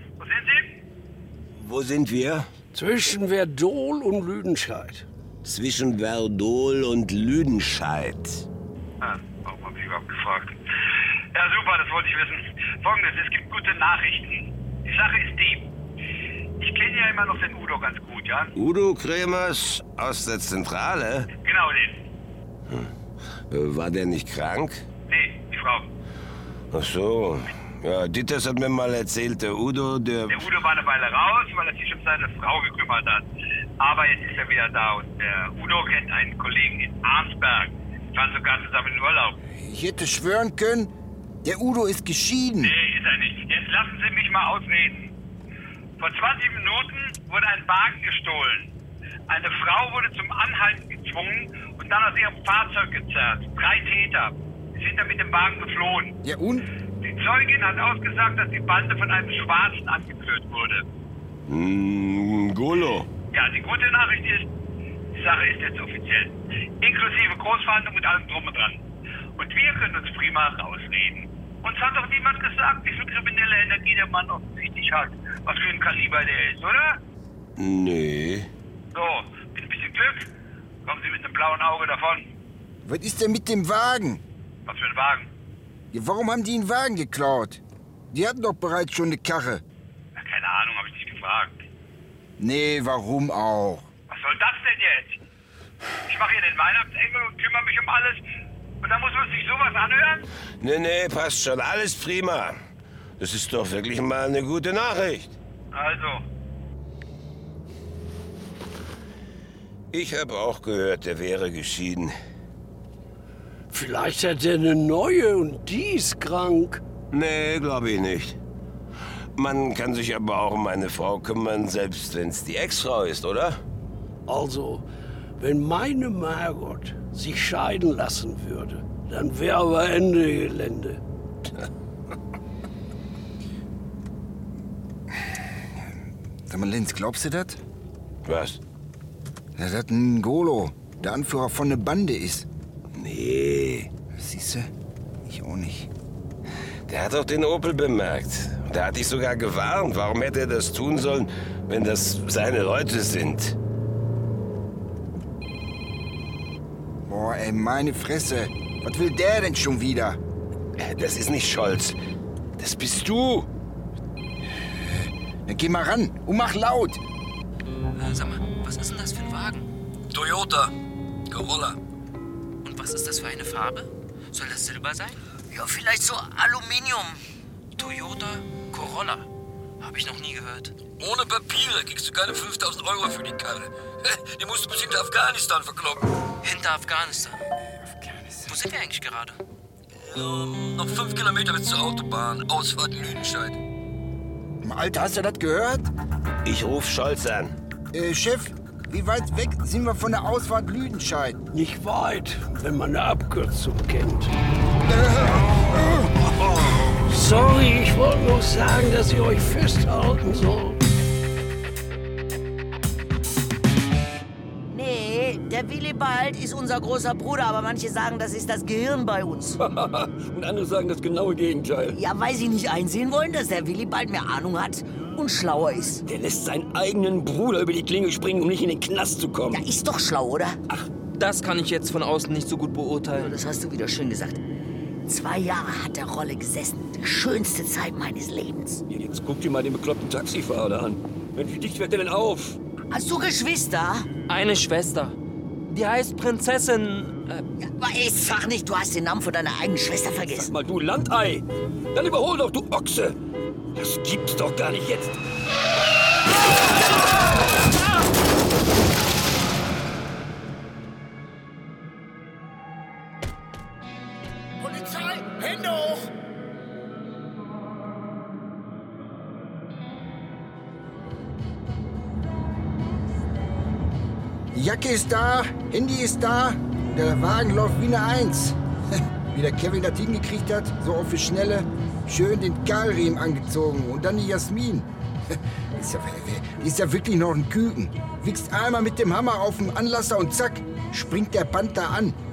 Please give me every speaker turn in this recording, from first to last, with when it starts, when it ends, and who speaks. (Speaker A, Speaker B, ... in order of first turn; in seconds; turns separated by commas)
Speaker A: 0.2-0.7, Speaker B: 1.6-2.5, Speaker C: 2.7-5.0, Speaker B: 5.4-8.4, Speaker A: 9.0-15.7, Speaker A: 16.6-18.5, Speaker B: 18.6-21.3, Speaker A: 21.4-22.0, Speaker B: 23.5-24.8, Speaker A: 25.1-25.9, Speaker B: 26.7-30.4, Speaker A: 30.3-33.2, Speaker A: 33.8-39.4, Speaker D: 39.5-40.9, Speaker D: 41.4-42.7, Speaker A: 42.6-45.1, Speaker A: 46.0-48.7, Speaker A: 49.3-56.1, Speaker D: 56.2-56.6, Speaker A: 57.0-60.8, Speaker B: 61.5-63.1, Speaker A: 63.3-64.5, Speaker A: 65.1-68.8, Speaker A: 69.4-77.0, Speaker B: 77.6-78.5, Speaker A: 78.9-80.3, Speaker A: 80.8-82.3, Speaker D: 82.8-84.2, Speaker A: 84.7-85.3, Speaker D: 85.9-89.6, Speaker A: 90.2-91.6, Speaker D: 92.4-93.9, Speaker A: 94.1-95.2, Speaker A: 96.1-98.2, Speaker A: 98.8-100.2, Speaker B: 100.6-102.6, Speaker B: 103.2-105.3, Speaker A: 105.7-106.2, Speaker B: 109.9-112.1, Speaker C: 113.7-116.8, Speaker B: 117.1-118.4, Speaker B: 119.3-123.6, Speaker C: 124.3-124.8, Speaker C: 125.4-131.0, Speaker D: 136.5-137.6, Speaker B: 138.2-138.6, Speaker D: 139.6-142.5, Speaker B: 142.9-143.9, Speaker D: 144.1-144.7, Speaker D: 145.2-145.9, Speaker B: 146.9-153.6, Speaker D: 157.1-160.2, Speaker B: 160.8-162.0, Speaker B: 162.6-163.5, Speaker D: 165.5-167.0, Speaker E: 167.9-169.7, Speaker F: 170.1-170.7, Speaker F: 171.3-171.8, Speaker E: 172.6-175.2, Speaker G: 175.5-177.2, Speaker E: 177.8-179.3, Speaker E: 179.8-180.7, Speaker F: 181.0-186.1, Speaker E: 186.4-187.4, Speaker D: 187.8-188.5, Speaker E: 188.4-189.4, Speaker F: 190.0-193.6, Speaker D: 194.6-195.9, Speaker B: 196.4-197.6, Speaker D: 197.9-201.4, Speaker C: 201.5-204.3, Speaker D: 204.8-206.3, Speaker C: 207.1-210.8, Speaker G: 214.7-219.6, Speaker F: 219.6-222.0, Speaker G: 221.9-226.0, Speaker F: 226.1-229.6, Speaker G: 229.5-230.6, Speaker E: 231.2-233.3, Speaker G: 233.1-234.4, Speaker G: 235.1-238.8, Speaker F: 238.9-242.6, Speaker G: 242.9-244.1, Speaker E: 244.3-245.2, Speaker E: 245.7-247.4, Speaker G: 247.6-250.5, Speaker F: 250.3-253.2, Speaker F: 253.8-255.2, Speaker D: 274.5-278.6, Speaker D: 279.3-292.2